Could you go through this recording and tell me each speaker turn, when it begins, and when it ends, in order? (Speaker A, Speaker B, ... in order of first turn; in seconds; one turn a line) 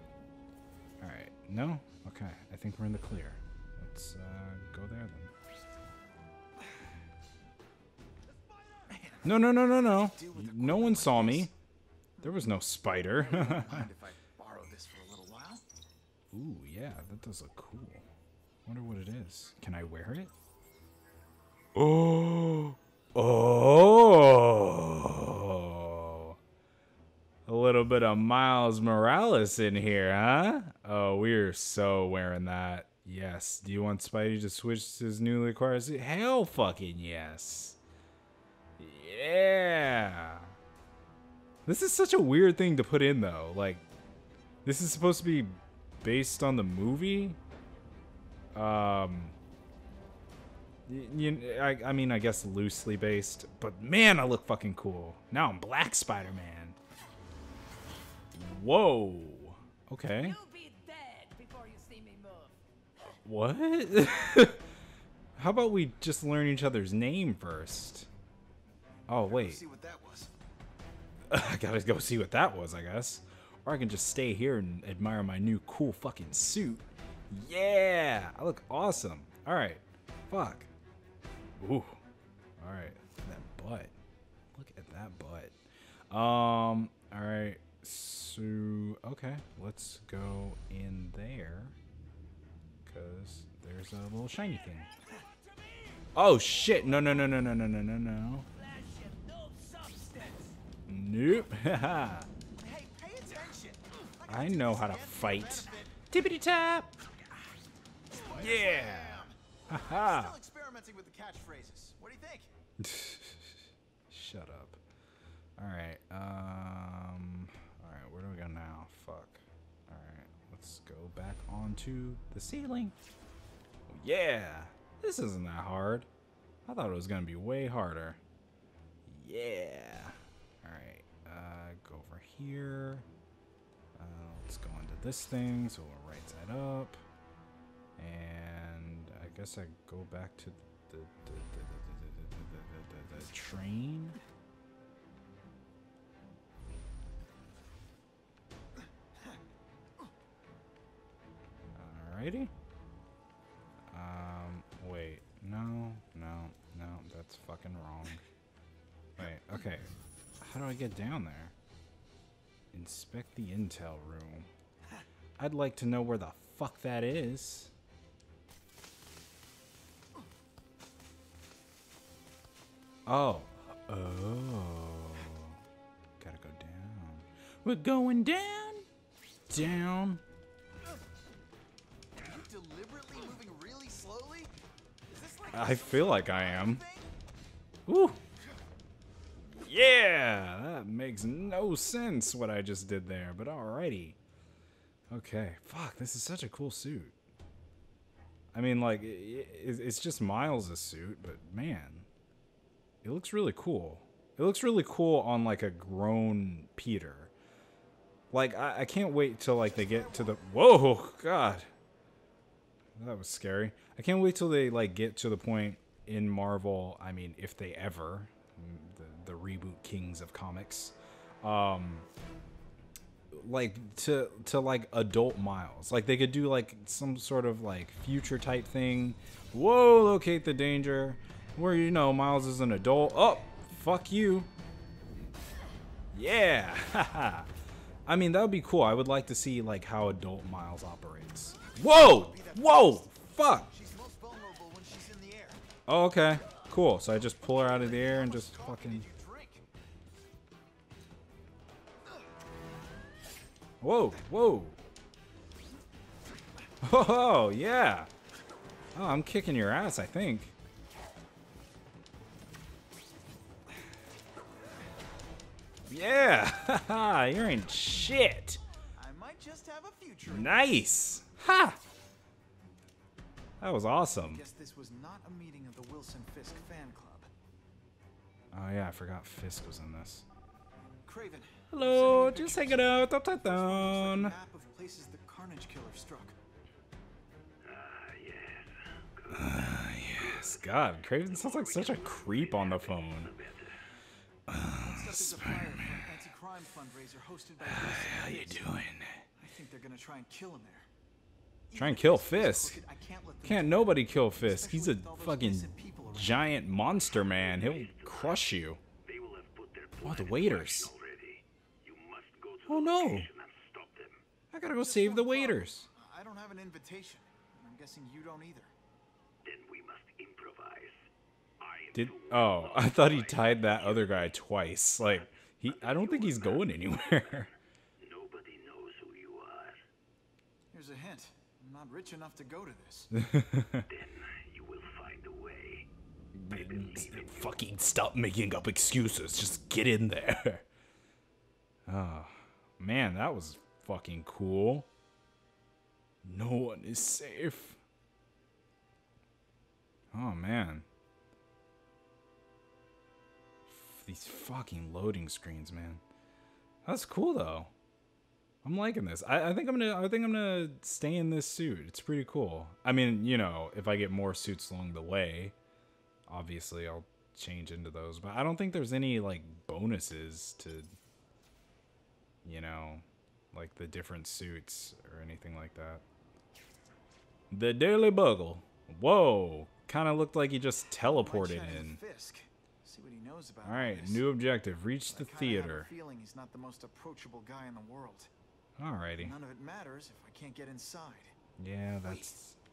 Speaker A: 1.0-5.3
Speaker B: 8.9-11.5
Speaker A: 9.2-11.5
Speaker A: 12.2-13.9
Speaker B: 13.1-15.6
Speaker A: 16.3-18.1
Speaker A: 18.7-20.3
Speaker A: 21.8-26.4
Speaker A: 27.5-37.8
Speaker A: 38.8-40.5
Speaker A: 41.7-43.9
Speaker A: 44.6-47.4
Speaker A: 48.5-49.4
Speaker A: 50.9-56.8
Speaker A: 58.3-60.4
Speaker C: 60.4-62.6
Speaker A: 63.1-64.7
Speaker A: 65.4-68.1
Speaker A: 69.1-69.6
Speaker B: 69.2-70.3
Speaker A: 71.3-80.7
Speaker A: 81.6-82.0
Speaker A: 82.6-84.0
Speaker A: 84.5-85.6
Speaker A: 86.1-91.8
Speaker A: 92.9-94.9
Speaker A: 96.2-98.5
Speaker D: 98.9-100.0
Speaker B: 99.9-100.5
Speaker A: 100.9-102.3
Speaker B: 102.6-106.0
Speaker A: 104.3-106.9
Speaker B: 108.2-112.5
Speaker A: 108.3-110.4
Speaker A: 112.8-114.8
Speaker A: 115.6-123.0
Speaker A: 123.9-126.1
Speaker A: 126.7-128.2
Speaker A: 129.1-133.1
Speaker A: 134.0-137.0
Speaker A: 138.0-144.2
Speaker A: 151.7-152.5
Speaker A: 153.9-158.2
Speaker A: 159.2-161.6
Speaker A: 162.7-164.5
Speaker A: 165.4-167.7
Speaker A: 173.1-175.6
Speaker A: 176.2-178.9
Speaker A: 179.5-180.2
Speaker B: 182.2-184.5
Speaker B: 185.1-187.1
Speaker A: 185.5-186.8
Speaker A: 187.9-188.2
Speaker A: 189.4-194.2
Speaker A: 195.1-197.2
Speaker A: 198.5-202.1
Speaker A: 203.0-207.3
Speaker A: 208.3-211.7
Speaker B: 209.6-210.4
Speaker A: 213.0-222.1
Speaker A: 223.3-234.5
Speaker A: 236.1-237.5
Speaker A: 238.1-243.7
Speaker B: 241.7-245.6
Speaker A: 245.9-249.1
Speaker B: 247.5-249.6
Speaker A: 253.8-254.8
Speaker A: 256.8-258.1
Speaker A: 258.9-260.6
Speaker A: 265.9-268.6
Speaker B: 268.9-270.8
Speaker A: 270.2-271.8
Speaker A: 273.6-274.4
Speaker B: 274.2-277.3
Speaker A: 278.5-280.3
Speaker B: 281.0-286.4
Speaker A: 281.7-284.4
Speaker D: 287.6-293.8
Speaker A: 289.3-293.3
Speaker A: 294.5-296.1
Speaker B: 294.8-298.7
Speaker A: 297.6-299.2
Speaker B: 299.4-300.9
Speaker B: 301.7-306.5
Speaker A: 301.8-302.8
Speaker A: 303.4-308.8
Speaker D: 307.1-308.5
Speaker D: 309.0-314.2
Speaker A: 310.0-310.9
Speaker A: 312.7-313.3
Speaker A: 314.5-315.9
Speaker B: 314.7-318.7
Speaker D: 319.4-321.1
Speaker D: 321.6-324.4
Speaker A: 321.9-327.5
Speaker D: 325.1-327.5
Speaker D: 328.0-329.8
Speaker B: 330.7-333.1
Speaker A: 333.1-333.9
Speaker D: 333.9-335.9
Speaker A: 336.3-340.6
Speaker D: 336.5-337.5
Speaker A: 341.9-344.9
Speaker A: 346.2-347.8
Speaker A: 350.1-350.9
Speaker A: 353.7-356.0
Speaker A: 356.9-357.7
Speaker A: 358.6-365.6
Speaker A: 366.3-370.9
Speaker A: 372.4-376.0
Speaker A: 377.5-382.0
Speaker B: 381.0-384.3
Speaker A: 383.6-385.9
Speaker B: 385.1-388.3
Speaker A: 388.8-389.4
Speaker B: 389.2-391.4
Speaker A: 391.6-392.6
Speaker B: 392.1-392.3